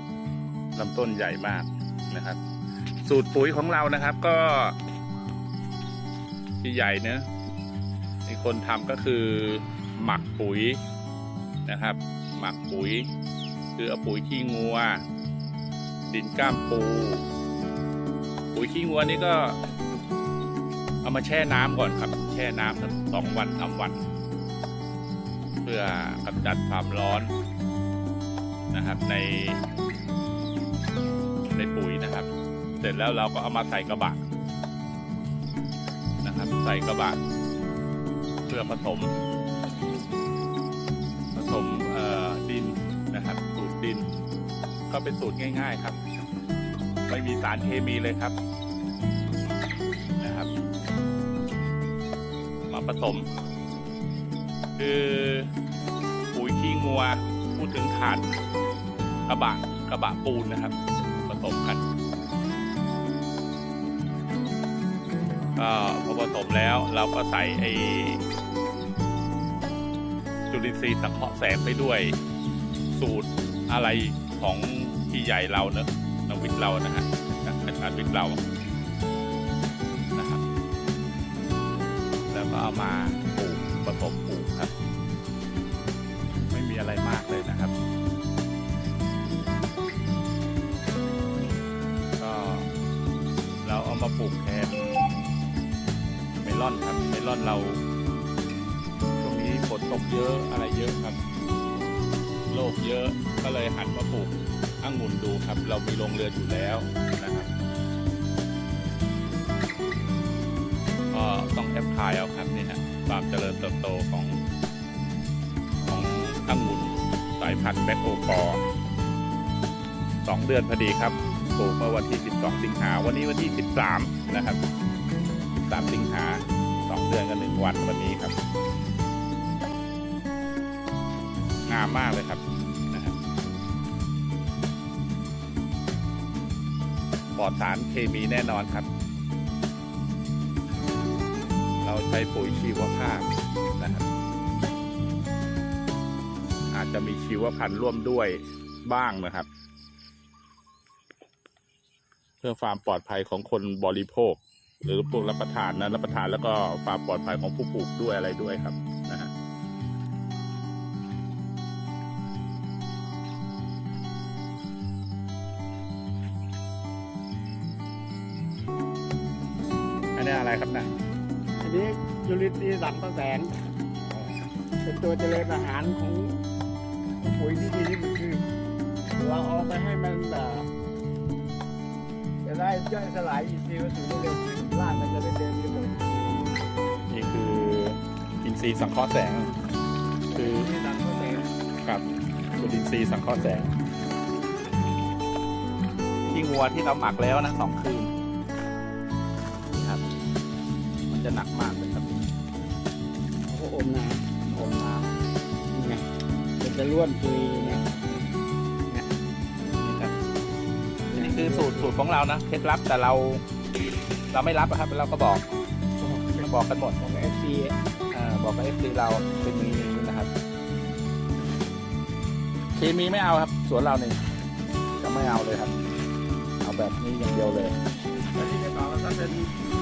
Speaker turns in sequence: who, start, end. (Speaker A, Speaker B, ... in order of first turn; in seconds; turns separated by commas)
Speaker A: 0.7-2.4, Speaker A: 3.0-4.8, Speaker A: 6.6-7.3, Speaker A: 8.2-10.8, Speaker A: 11.7-13.1, Speaker A: 13.8-15.0, Speaker A: 16.1-17.2, Speaker A: 18.5-19.6, Speaker A: 21.0-24.1, Speaker A: 25.6-27.3, Speaker A: 28.7-29.6, Speaker A: 31.5-32.3, Speaker A: 32.8-34.2, Speaker A: 36.2-37.2, Speaker A: 38.5-39.1, Speaker A: 41.3-44.1, Speaker A: 44.9-46.0, Speaker A: 47.1-48.3, Speaker A: 50.2-50.5, Speaker A: 52.7-53.3, Speaker A: 54.8-55.5, Speaker A: 56.3-58.2, Speaker A: 59.3-61.8, Speaker A: 65.5-68.2, Speaker A: 70.5-72.2, Speaker A: 72.9-78.4, Speaker A: 80.1-80.4, Speaker A: 82.3-84.7, Speaker A: 86.5-87.7, Speaker A: 92.2-92.7, Speaker A: 93.6-95.0, Speaker A: 96.4-97.8, Speaker A: 99.2-101.2, Speaker A: 102.5-107.5, Speaker A: 111.1-114.4, Speaker A: 115.8-118.6, Speaker A: 120.2-124.6, Speaker A: 125.7-128.3, Speaker A: 131.7-133.2, Speaker A: 137.3-138.9, Speaker A: 141.8-144.1, Speaker A: 146.7-149.5, Speaker A: 152.4-159.3, Speaker A: 170.2-170.9, Speaker B: 171.6-173.5, Speaker A: 174.1-174.3, Speaker B: 174.8-176.4, Speaker B: 177.2-178.4, Speaker B: 179.1-180.7, Speaker B: 182.4-186.5, Speaker A: 187.1-189.5, Speaker B: 190.3-191.5, Speaker A: 190.3-190.7, Speaker A: 192.6-193.7, Speaker A: 196.3-198.1, Speaker A: 199.7-200.0, Speaker A: 201.1-202.3, Speaker B: 203.5-204.2, Speaker A: 204.4-205.1, Speaker B: 205.7-206.0, Speaker B: 206.6-207.8, Speaker A: 207.6-208.3, Speaker A: 209.8-210.1, Speaker B: 211.1-211.9, Speaker A: 211.1-213.4, Speaker A: 214.3-215.5, Speaker B: 216.0-216.4, Speaker A: 216.3-217.0, Speaker B: 217.0-217.8, Speaker A: 218.1-220.3, Speaker A: 222.8-224.2, Speaker A: 225.0-225.9, Speaker A: 226.6-227.8, Speaker B: 228.3-229.5